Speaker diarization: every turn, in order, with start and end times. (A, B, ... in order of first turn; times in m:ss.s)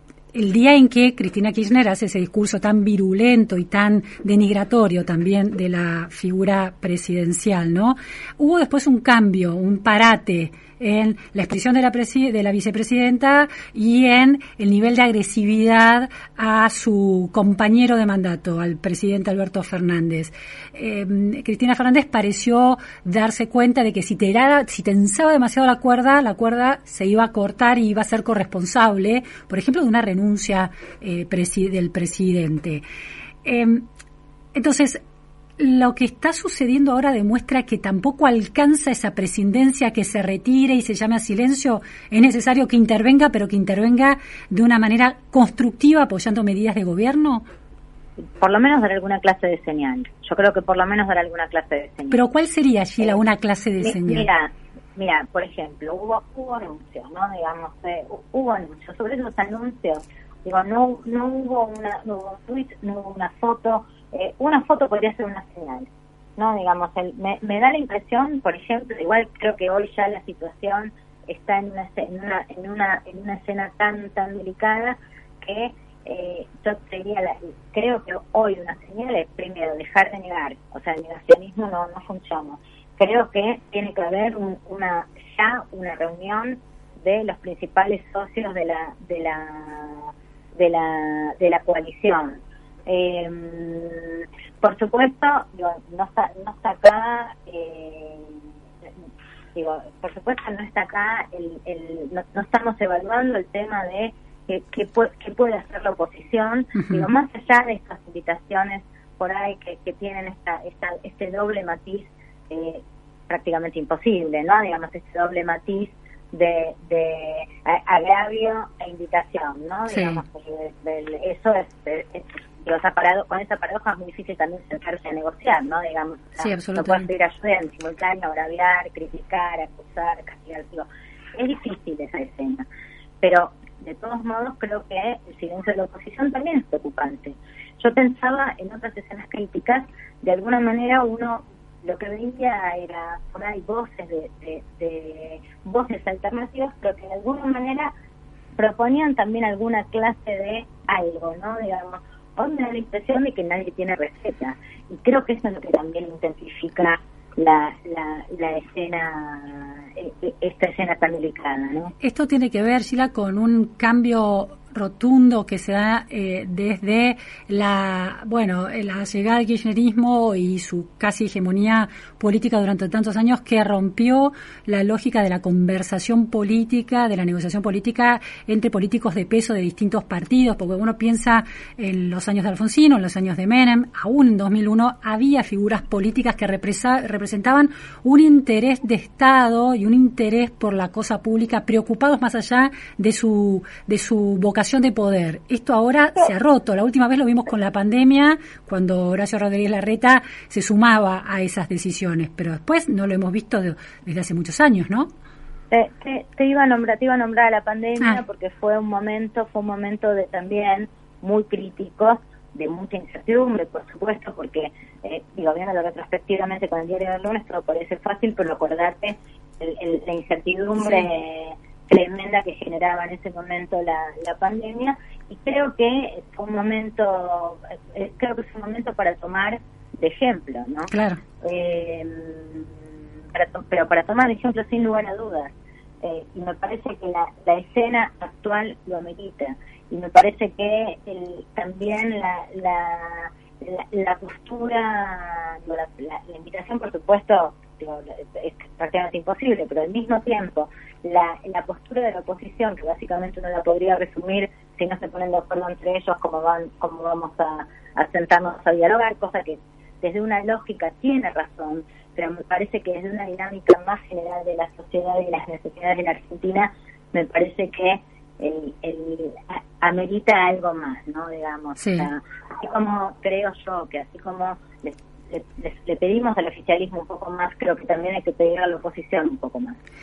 0:00.3-0:32.8 A
0:33.4-0:33.9 A
0:34.5-0:35.0 A
0:35.6-0:47.4 A
0:48.2-0:52.2 B
0:52.1-0:54.3 A
0:53.8-1:38.4 B
1:39.6-2:12.6 B
1:46.8-1:47.1 A
1:59.9-2:00.2 A
2:06.4-2:07.1 A
2:13.2-2:27.9 B
2:28.6-2:41.9 B
2:42.0-3:25.1 A
3:25.7-3:50.9 B
3:40.8-3:41.1 A
3:50.9-3:51.2 A
3:51.4-3:52.7 B
3:53.3-4:39.8 B
4:31.8-4:32.1 A